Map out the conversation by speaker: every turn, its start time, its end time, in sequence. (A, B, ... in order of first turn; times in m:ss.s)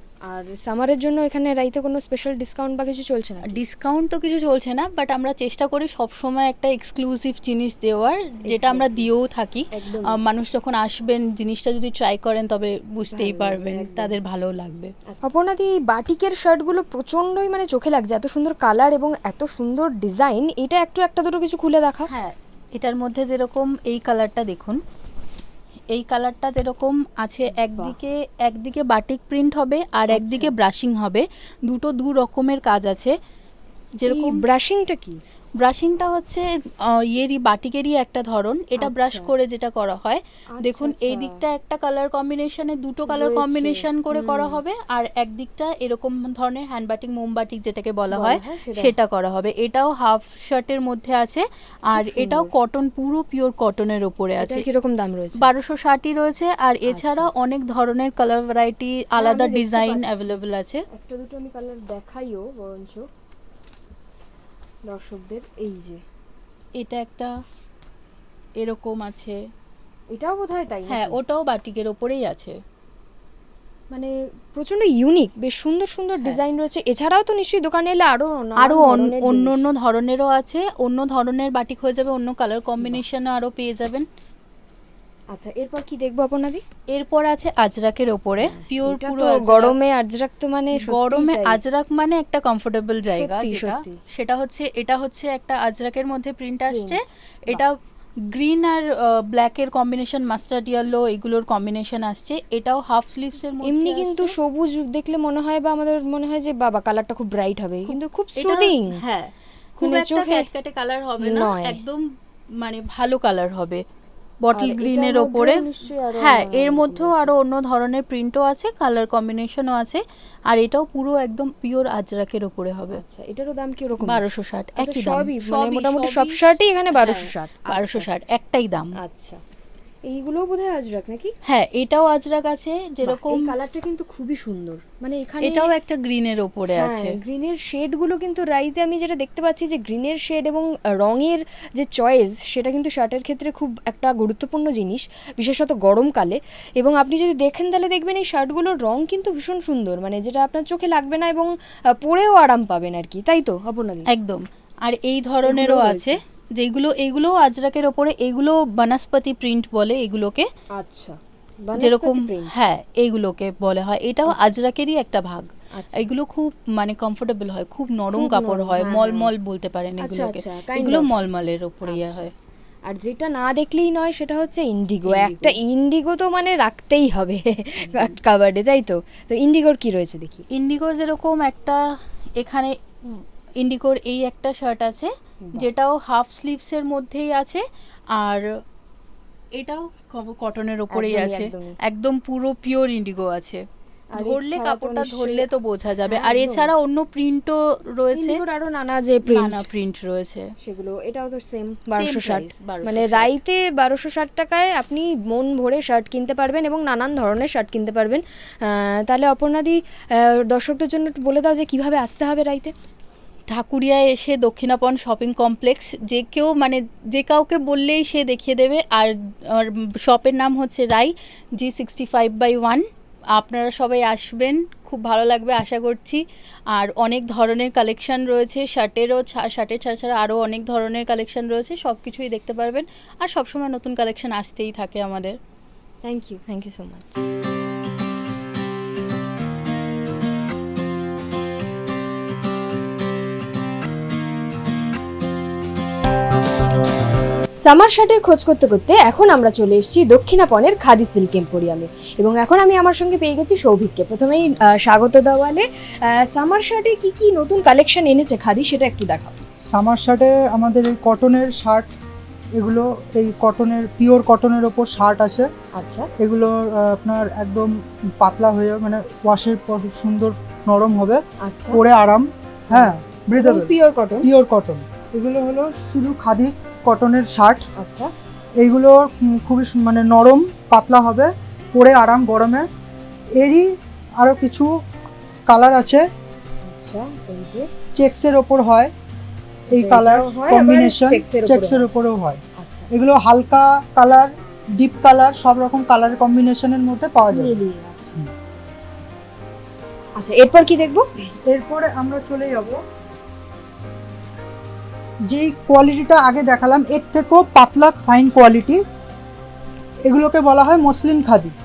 0:00.3-0:03.6 A
0:03.5-0:14.9 B
0:08.5-0:09.1 A
0:09.7-0:10.2 A
0:13.1-0:14.2 A
0:15.1-0:22.1 A
0:22.1-0:24.8 B
0:25.9-0:33.2 B
0:27.5-0:28.0 A
0:30.1-0:30.5 A
0:34.0-0:34.4 B
0:34.1-0:35.2 A
0:35.6-0:54.7 B
0:38.8-0:39.3 A
0:40.5-0:41.4 A
0:43.1-0:44.6 A
0:48.1-0:48.9 A
0:51.9-0:52.5 A
0:54.4-0:55.5 A
0:55.4-1:00.8 B
0:56.9-0:57.3 A
0:59.2-1:03.1 A
1:04.9-1:06.0 A
1:06.8-1:07.3 B
1:08.6-1:09.4 B
1:10.1-1:11.2 A
1:10.9-1:12.6 B
1:13.9-1:19.6 A
1:18.6-1:24.1 B
1:25.3-1:26.6 A
1:26.9-1:29.7 B
1:28.4-1:31.6 A
1:30.7-1:37.7 B
1:33.1-1:34.0 A
1:36.7-1:37.6 A
1:38.3-1:44.4 B
1:43.6-1:49.0 A
1:47.9-1:52.1 B
1:49.8-1:50.5 A
1:51.2-1:51.8 A
1:52.6-1:53.8 B
1:54.4-1:55.6 B
1:54.6-1:57.3 A
1:56.2-2:03.0 B
2:02.9-2:04.2 A
2:04.0-2:08.9 B
2:04.8-2:08.1 A
2:09.0-2:09.4 A
2:10.1-2:11.3 A
2:11.5-2:13.5 B
2:13.1-2:15.7 A
2:15.4-2:17.2 B
2:16.8-2:34.1 A
2:34.1-2:40.5 B
2:35.4-2:36.2 A
2:40.8-2:42.6 A
2:41.8-2:52.3 B
2:45.8-2:46.0 A
2:48.1-2:49.3 A
2:50.0-2:51.3 A
2:51.8-2:52.2 A
2:52.9-3:00.4 A
2:55.0-2:55.6 B
2:57.8-2:58.2 B
3:00.5-3:07.6 B
3:05.4-3:05.7 A
3:08.2-3:08.5 B
3:09.6-3:13.6 B
3:10.9-3:11.8 A
3:14.1-3:15.5 A
3:14.2-3:18.4 B
3:16.1-3:16.7 A
3:18.1-3:19.6 A
3:19.3-3:20.5 B
3:20.6-3:32.7 A
3:21.9-3:23.3 B
3:33.5-3:42.8 B
3:43.4-3:55.4 B
3:56.0-3:57.1 A
4:07.6-4:19.4 A
4:19.7-4:21.9 C
4:22.6-4:25.5 C
4:25.8-4:26.1 A
4:26.2-4:31.2 C
4:31.4-4:31.8 A
4:31.7-4:33.7 C
4:32.7-4:34.3 A
4:34.2-4:37.6 C
4:37.8-4:38.1 A
4:38.6-4:42.7 C
4:43.4-4:43.7 C
4:44.2-4:44.7 C
4:45.5-4:46.0 C
4:46.7-4:47.7 A
4:48.0-4:48.9 C
4:49.7-4:52.4 C
4:49.7-4:51.9 A
4:52.6-4:52.9 A
4:52.9-4:57.6 C
4:57.3-4:58.2 A
5:00.2-5:01.1 A
5:01.5-5:02.8 C
5:05.3-5:08.8 C
5:10.1-5:11.5 C